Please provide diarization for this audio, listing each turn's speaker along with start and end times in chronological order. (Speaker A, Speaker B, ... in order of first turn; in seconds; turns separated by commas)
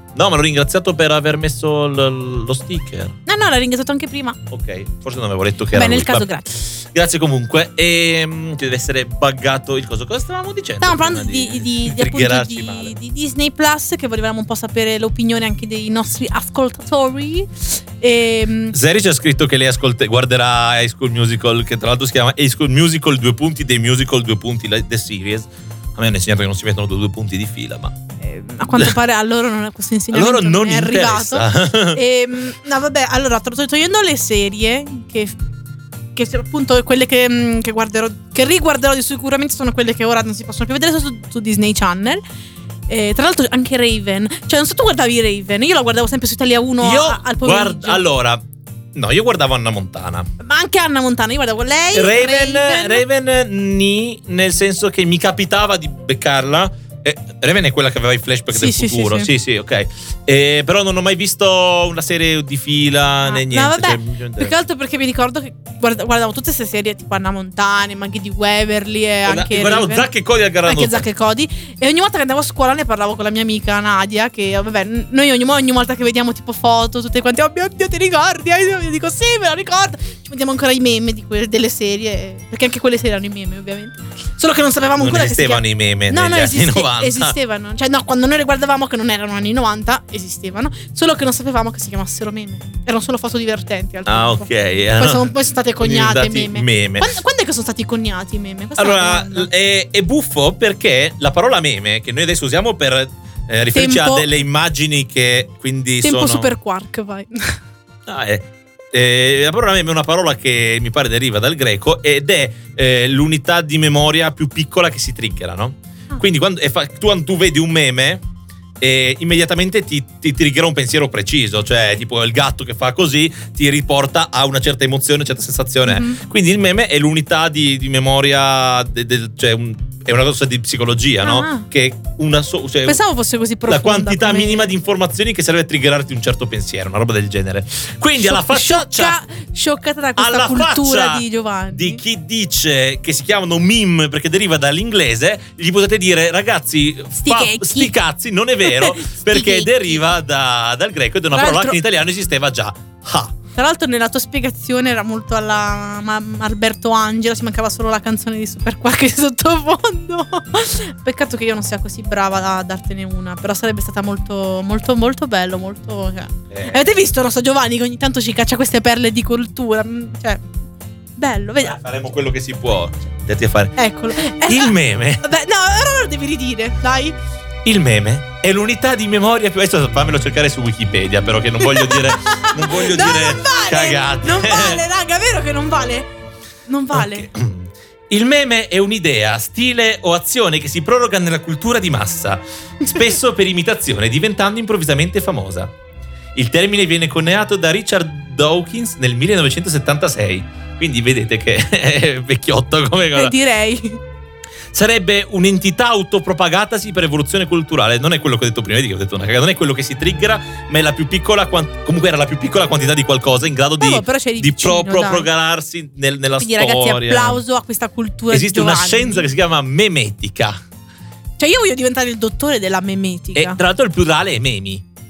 Speaker A: 0.1-3.2, Speaker B: 3.2-4.4, Speaker A: 4.5-12.9, Speaker B: 5.7-6.7, Speaker B: 10.8-18.8, Speaker A: 18.7-27.9, Speaker B: 28.2-35.4, Speaker A: 30.1-32.0, Speaker B: 36.1-42.2, Speaker B: 42.9-48.0, Speaker A: 46.8-48.4, Speaker A: 48.9-50.3, Speaker B: 50.4-53.0, Speaker A: 51.9-64.5, Speaker B: 58.5-59.3, Speaker B: 63.2-70.1, Speaker A: 69.2-71.0, Speaker B: 70.6-99.5, Speaker A: 85.0-87.3, Speaker A: 94.1-97.1, Speaker A: 98.8-106.5, Speaker B: 103.7-104.3, Speaker B: 106.0-107.6, Speaker A: 108.0-118.2, Speaker A: 118.8-133.0, Speaker B: 125.9-126.2, Speaker B: 131.2-131.7, Speaker B: 132.8-134.7, Speaker A: 133.7-139.2, Speaker B: 138.2-142.0, Speaker A: 140.2-153.3, Speaker B: 147.2-147.9, Speaker B: 148.6-150.0, Speaker B: 151.3-151.8, Speaker B: 153.6-170.4, Speaker A: 166.5-166.9, Speaker B: 171.2-171.8, Speaker A: 171.6-173.7, Speaker B: 173.8-177.2, Speaker A: 174.4-175.2, Speaker A: 177.6-184.8, Speaker B: 181.6-186.1, Speaker B: 186.7-187.3, Speaker A: 186.9-195.7, Speaker A: 196.3-203.3, Speaker B: 203.1-204.0, Speaker A: 204.7-217.4, Speaker B: 213.8-215.3, Speaker B: 216.4-219.2, Speaker A: 218.3-220.6, Speaker B: 221.4-223.6, Speaker A: 223.3-224.8